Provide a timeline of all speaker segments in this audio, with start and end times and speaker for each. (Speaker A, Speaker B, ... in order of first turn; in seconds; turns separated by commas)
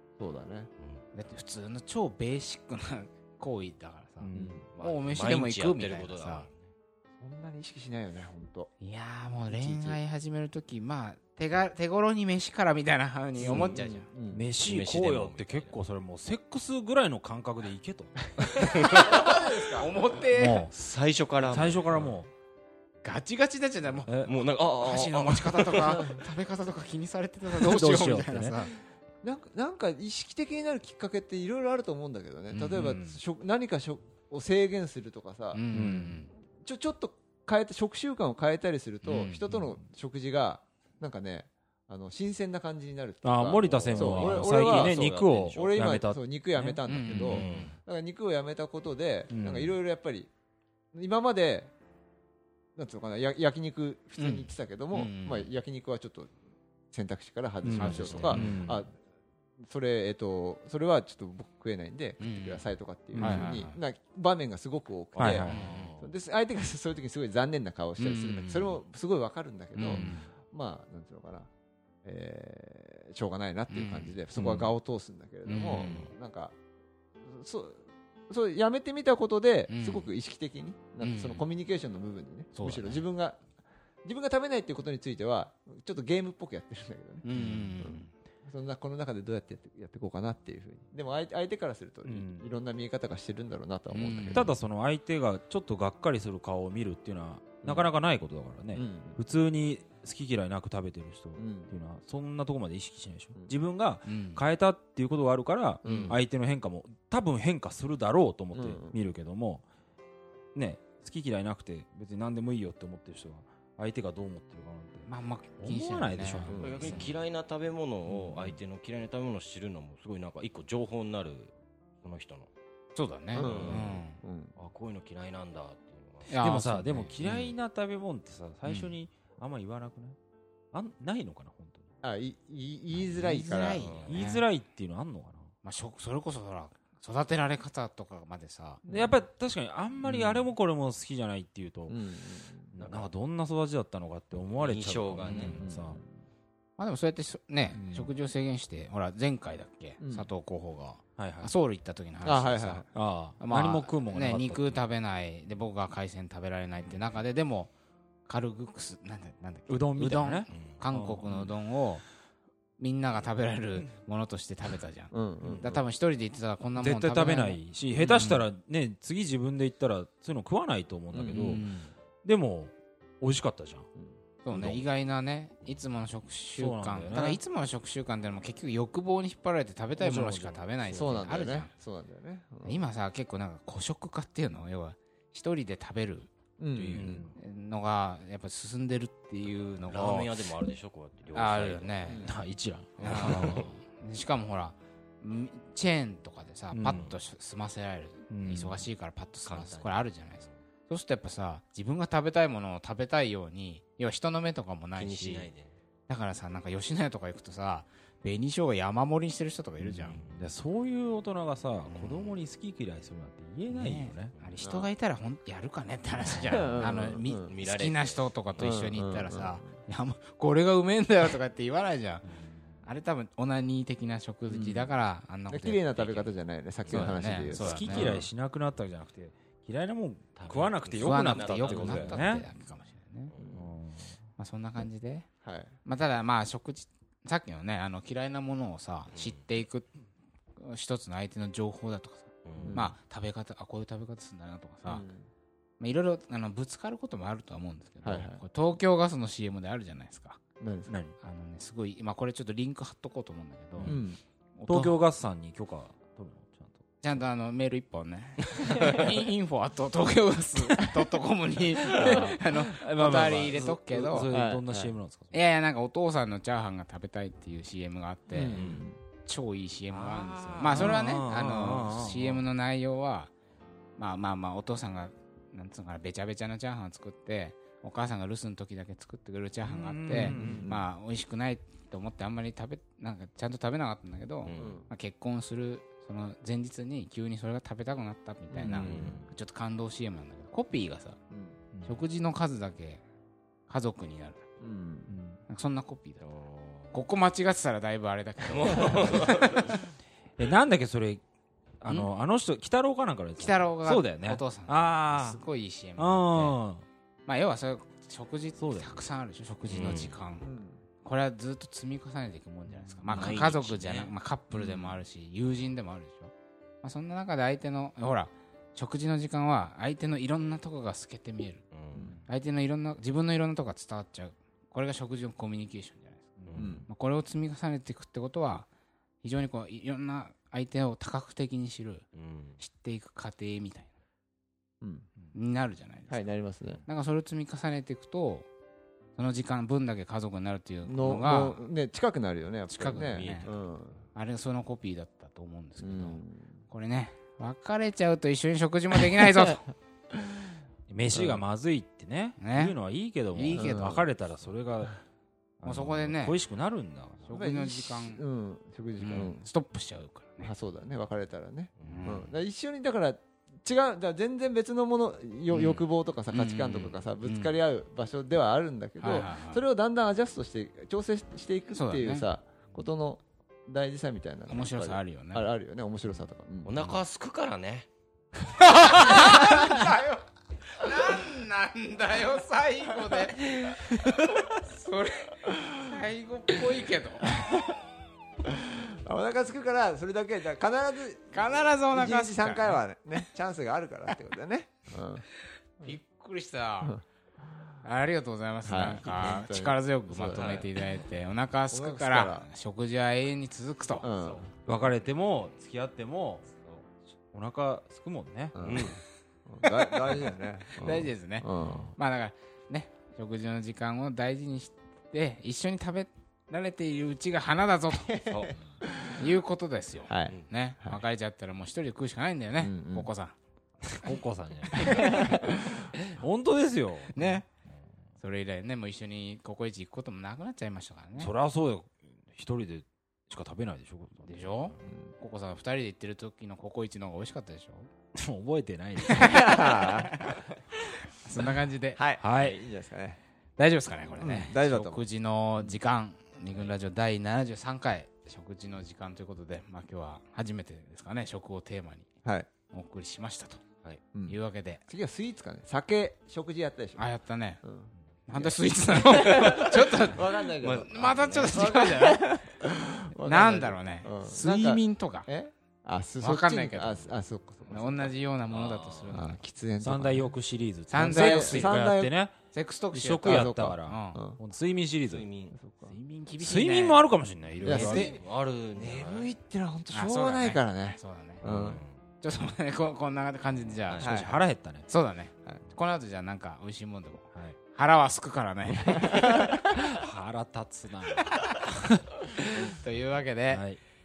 Speaker A: 0.2-0.7, Speaker B: 0.8-1.0, Speaker C: 1.1-6.5, Speaker D: 4.2-4.6, Speaker A: 4.3-4.6, Speaker B: 4.7-6.7, Speaker A: 7.2-8.7, Speaker C: 8.8-14.1, Speaker A: 9.5-10.0, Speaker A: 13.4-14.4, Speaker D: 14.3-18.8, Speaker B: 14.6-15.8, Speaker B: 18.6-19.3, Speaker C: 18.8-20.7, Speaker A: 18.8-20.0, Speaker D: 20.3-20.7, Speaker B: 20.7-22.1, Speaker D: 21.4-22.3, Speaker C: 23.0-28.7, Speaker D: 24.1-24.4, Speaker B: 24.2-26.0, Speaker A: 25.8-26.2, Speaker D: 27.6-28.6, Speaker A: 29.2-35.6, Speaker C: 32.5-33.0, Speaker D: 32.7-33.2, Speaker C: 35.5-36.3, Speaker D: 35.7-36.2, Speaker A: 36.5-45.0, Speaker D: 39.0-39.8, Speaker D: 43.2-47.7, Speaker B: 43.7-45.8, Speaker A: 45.5-50.3, Speaker C: 46.9-47.5, Speaker B: 47.3-47.7, Speaker D: 49.3-49.7, Speaker A: 50.9-51.7, Speaker A: 52.8-56.3, Speaker C: 54.2-55.5, Speaker A: 56.9-58.9, Speaker D: 57.6-58.8, Speaker C: 57.7-58.6, Speaker A: 59.6-71.5, Speaker C: 62.2-63.8, Speaker D: 63.1-63.6, Speaker B: 65.2-66.1, Speaker D: 65.2-65.7, Speaker C: 65.4-65.9, Speaker C: 68.0-68.8, Speaker C: 69.8-70.3, Speaker D: 69.8-70.2, Speaker A: 72.0-76.5, Speaker C: 73.7-74.2, Speaker D: 74.3-74.7, Speaker C: 75.5-76.1, Speaker A: 77.2-83.4, Speaker C: 79.7-80.1, Speaker C: 81.0-81.4, Speaker C: 82.5-83.0, Speaker A: 84.0-94.5, Speaker C: 87.2-88.1, Speaker D: 87.3-87.7, Speaker D: 92.0-92.5, Speaker C: 93.9-94.5, Speaker D: 94.3-109.6, Speaker A: 97.6-97.9, Speaker A: 98.7-99.2, Speaker A: 101.3-101.7, Speaker C: 104.0-104.4, Speaker A: 105.8-106.2, Speaker A: 108.5-109.0, Speaker D: 110.5-117.0, Speaker C: 115.1-117.1, Speaker A: 116.5-117.0, Speaker B: 116.6-122.5, Speaker C: 122.9-124.2, Speaker A: 123.3-124.5, Speaker B: 123.4-124.0, Speaker B: 124.5-126.3, Speaker C: 126.3-127.5, Speaker D: 126.4-130.2, Speaker C: 128.7-128.9, Speaker D: 130.7-131.9, Speaker A: 132.0-134.1, Speaker C: 133.1-134.4, Speaker B: 133.8-134.2, Speaker D: 134.1-135.5, Speaker C: 135.6-138.8, Speaker A: 138.8-139.2, Speaker D: 138.9-142.0, Speaker A: 140.0-140.5, Speaker A: 141.9-142.8, Speaker D: 142.7-146.0, Speaker B: 144.6-145.6, Speaker A: 145.4-146.1, Speaker C: 146.8-157.7, Speaker D: 147.7-148.1, Speaker A: 150.0-150.3, Speaker D: 151.2-151.5, Speaker A: 152.2-152.9, Speaker D: 152.9-154.8, Speaker C: 158.2-162.0, Speaker D: 159.7-161.5, Speaker B: 160.5-160.8, Speaker C: 162.8-167.6, Speaker A: 165.1-165.7, Speaker D: 165.4-165.8, Speaker D: 166.8-171.7, Speaker A: 167.9-168.3, Speaker C: 168.1-168.4, Speaker A: 171.1-171.6, Speaker C: 171.3-171.9, Speaker D: 172.2-173.9, Speaker C: 174.4-181.7, Speaker D: 174.5-174.8, Speaker D: 176.6-177.4, Speaker D: 180.0-181.2, Speaker A: 180.9-182.8, Speaker C: 182.6-186.3, Speaker A: 186.6-187.3, Speaker B: 186.7-187.3, Speaker D: 186.9-187.4, Speaker C: 187.3-190.3, Speaker B: 189.9-192.2, Speaker C: 191.3-192.3, Speaker A: 192.1-192.3, Speaker D: 192.2-193.7, Speaker C: 193.0-205.5, Speaker B: 193.0-193.6, Speaker D: 196.7-197.1, Speaker D: 198.3-198.8, Speaker B: 199.4-200.6, Speaker B: 204.9-205.7, Speaker C: 206.1-210.2, Speaker D: 209.9-214.3, Speaker B: 210.1-210.5, Speaker C: 213.7-222.2, Speaker A: 214.6-214.9, Speaker A: 216.4-217.5, Speaker B: 217.4-218.7, Speaker A: 218.6-219.7, Speaker C: 222.8-226.3, Speaker A: 225.5-228.2, Speaker B: 226.8-227.2, Speaker C: 226.9-228.2, Speaker D: 227.4-232.5, Speaker B: 227.9-228.2, Speaker B: 230.3-232.4, Speaker C: 231.0-233.3, Speaker B: 233.3-233.6, Speaker A: 233.3-233.6, Speaker D: 233.5-234.2, Speaker C: 234.4-235.3, Speaker A: 235.4-235.7, Speaker C: 235.8-239.9, Speaker B: 239.1-239.4, Speaker C: 240.6-245.0, Speaker B: 242.4-242.8, Speaker A: 242.6-242.9, Speaker A: 244.8-245.3, Speaker C: 245.8-250.4, Speaker A: 248.0-248.4, Speaker A: 250.6-251.0, Speaker D: 250.9-251.2, Speaker C: 251.2-254.0, Speaker D: 253.8-254.0, Speaker A: 253.8-254.2, Speaker C: 254.6-254.9, Speaker D: 254.7-256.9, Speaker C: 257.0-264.3, Speaker D: 258.7-259.1, Speaker D: 261.8-265.3, Speaker A: 261.9-262.4, Speaker A: 263.2-264.9, Speaker C: 265.3-268.6, Speaker A: 268.3-269.0, Speaker B: 268.5-268.8, Speaker D: 268.6-268.9, Speaker C: 269.2-273.3, Speaker D: 269.9-272.4, Speaker C: 274.0-291.2, Speaker D: 279.6-280.7, Speaker A: 280.1-280.8, Speaker B: 284.4-284.9, Speaker A: 284.5-284.9, Speaker A: 288.5-289.1, Speaker B: 288.8-289.2, Speaker D: 288.9-289.3, Speaker A: 291.3-291.6, Speaker D: 291.7-292.0, Speaker C: 291.8-293.0, Speaker C: 293.7-294.4, Speaker A: 294.6-295.1, Speaker D: 295.1-295.4, Speaker C: 295.5-296.3, Speaker B: 296.4-296.9, Speaker C: 296.9-299.8, Speaker B: 298.5-299.7, Speaker D: 300.4-301.2, Speaker D: 301.8-305.4, Speaker C: 303.4-306.6, Speaker D: 306.0-306.8, Speaker C: 307.2-310.5, Speaker D: 308.6-308.9, Speaker B: 309.7-310.1, Speaker A: 310.4-310.8, Speaker C: 311.0-316.3, Speaker D: 312.9-313.5, Speaker B: 313.1-314.1, Speaker C: 316.8-321.6, Speaker B: 321.7-322.1, Speaker A: 321.9-322.2, Speaker C: 322.3-328.7, Speaker D: 326.4-326.8, Speaker B: 326.5-326.8, Speaker A: 326.5-326.9, Speaker C: 329.2-332.0, Speaker B: 332.1-332.6, Speaker C: 332.6-333.9, Speaker A: 334.8-335.1, Speaker C: 335.3-336.3, Speaker A: 336.1-336.8, Speaker C: 336.9-338.5, Speaker C: 339.2-341.6, Speaker A: 340.9-344.0, Speaker C: 342.7-343.5, Speaker B: 343.1-343.7, Speaker C: 344.1-349.6, Speaker A: 345.8-346.6, Speaker D: 350.9-355.0, Speaker A: 351.1-351.4, Speaker C: 352.4-352.8, Speaker C: 353.3-354.0, Speaker A: 353.5-354.1, Speaker D: 355.6-357.4, Speaker C: 355.6-356.4, Speaker C: 357.3-358.2, Speaker A: 357.3-359.4, Speaker C: 359.0-360.5, Speaker A: 360.4-376.9, Speaker B: 361.8-362.1, Speaker C: 361.8-362.3, Speaker C: 365.5-367.6, Speaker C: 369.0-369.6, Speaker C: 371.7-372.2, Speaker C: 374.5-375.5, Speaker B: 376.6-377.9, Speaker C: 378.6-380.2, Speaker A: 379.1-379.8, Speaker C: 380.7-383.9, Speaker C: 384.5-387.4, Speaker A: 387.3-387.7, Speaker A: 388.4-395.2, Speaker C: 391.3-392.8, Speaker C: 395.8-397.0, Speaker C: 397.8-404.1, Speaker A: 398.6-400.7, Speaker B: 400.2-400.7, Speaker A: 401.7-402.5, Speaker A: 404.0-404.5, Speaker D: 404.6-406.5, Speaker D: 407.3-408.8, Speaker A: 408.5-411.9, Speaker B: 408.6-409.0, Speaker C: 410.8-418.3, Speaker B: 411.6-411.9, Speaker A: 418.0-419.3, Speaker B: 418.3-418.6, Speaker C: 419.1-423.3, Speaker A: 420.1-421.0, Speaker A: 422.6-423.1, Speaker D: 423.9-427.4, Speaker C: 424.8-425.6, Speaker A: 424.8-425.5, Speaker C: 427.1-427.5, Speaker C: 428.2-431.3, Speaker D: 431.2-434.8, Speaker C: 434.2-437.9, Speaker A: 434.8-435.1, Speaker D: 438.1-439.5, Speaker A: 439.1-440.6, Speaker C: 439.1-440.4, Speaker C: 441.2-442.0, Speaker A: 441.9-443.2, Speaker D: 442.2-442.6, Speaker C: 443.6-452.1, Speaker A: 444.1-445.0, Speaker A: 452.2-452.5, Speaker C: 452.7-453.6, Speaker A: 454.1-457.1, Speaker C: 454.3-454.8, Speaker C: 457.0-457.6, Speaker A: 457.6-468.1, Speaker C: 458.3-462.3, Speaker B: 460.6-461.8, Speaker C: 463.1-465.3, Speaker C: 466.2-467.1, Speaker C: 467.7-469.4, Speaker B: 468.5-469.2, Speaker A: 469.1-470.3, Speaker D: 469.8-472.3, Speaker C: 470.9-471.9, Speaker A: 470.9-472.1, Speaker C: 472.5-474.2, Speaker D: 472.9-475.3, Speaker A: 473.2-474.4, Speaker B: 475.1-475.5, Speaker A: 475.5-475.9, Speaker C: 475.9-477.0, Speaker D: 476.4-478.1, Speaker A: 477.6-481.8, Speaker C: 477.6-478.1, Speaker B: 477.7-479.3, Speaker C: 479.9-481.4, Speaker B: 481.4-482.0, Speaker C: 482.2-489.5, Speaker A: 484.0-484.3, Speaker D: 484.0-484.9, Speaker A: 489.0-489.6, Speaker D: 489.6-492.1, Speaker C: 491.3-491.6, Speaker C: 492.6-493.6, Speaker D: 493.5-493.8